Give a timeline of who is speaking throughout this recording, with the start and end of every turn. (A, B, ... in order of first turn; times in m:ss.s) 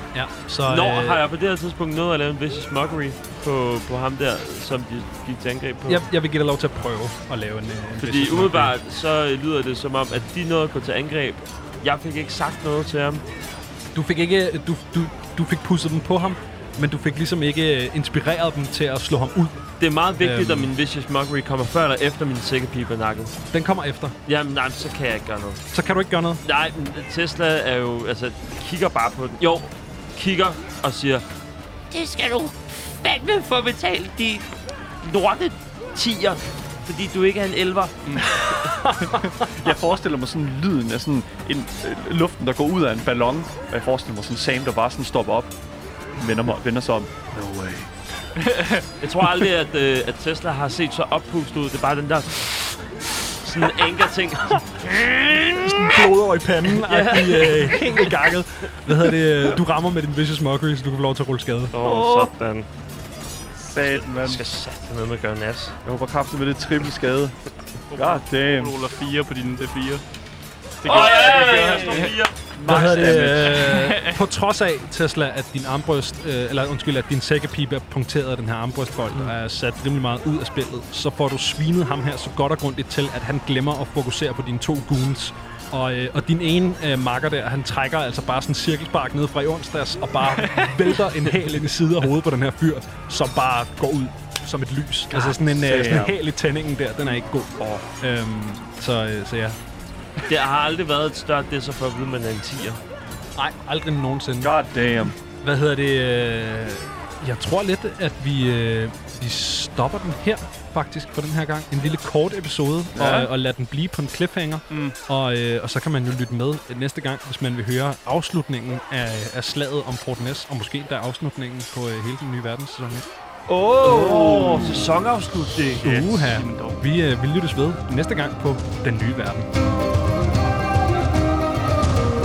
0:00.1-0:01.2 A
0:00.6-0:06.0 B
0:05.9-0:08.7 A
0:08.0-0:13.2 B
0:13.9-0:19.7 A
0:19.8-0:23.3 B
0:20.2-0:20.7 A
0:23.5-0:24.2 A
0:24.2-0:25.6 B
0:25.7-0:26.4 A
0:26.4-0:31.2 B
0:31.9-0:34.5 C
0:35.0-0:35.6 C
0:36.0-0:37.9 B
0:38.2-0:39.6 A
0:39.1-0:45.5 D
0:46.2-0:47.1 D
0:47.4-0:47.8 A
0:48.4-0:48.9 E
0:49.0-0:52.8 B
0:53.4-0:56.1 B
0:55.3-1:01.7 A
0:56.7-0:58.1 B
1:01.7-1:02.7 B
1:01.8-1:02.3 D
1:03.6-1:04.4 D
1:03.8-1:05.8 B
1:05.8-1:07.3 D
1:07.9-1:10.0 E
1:07.9-1:08.7 D
1:10.8-1:12.2 E
1:10.8-1:12.3 B
1:10.8-1:13.7 D
1:12.6-1:39.6 A
1:13.3-1:14.2 E
1:35.1-1:36.1 D
1:37.6-1:37.8 D
1:40.3-1:42.8 B
1:43.4-1:44.5 A
1:44.4-1:45.1 D
1:45.2-2:03.0 A
1:52.9-1:53.3 D
1:54.7-1:54.9 E
2:03.5-2:04.9 D
2:03.6-2:06.2 B
2:05.8-2:09.5 A
2:06.3-2:06.8 E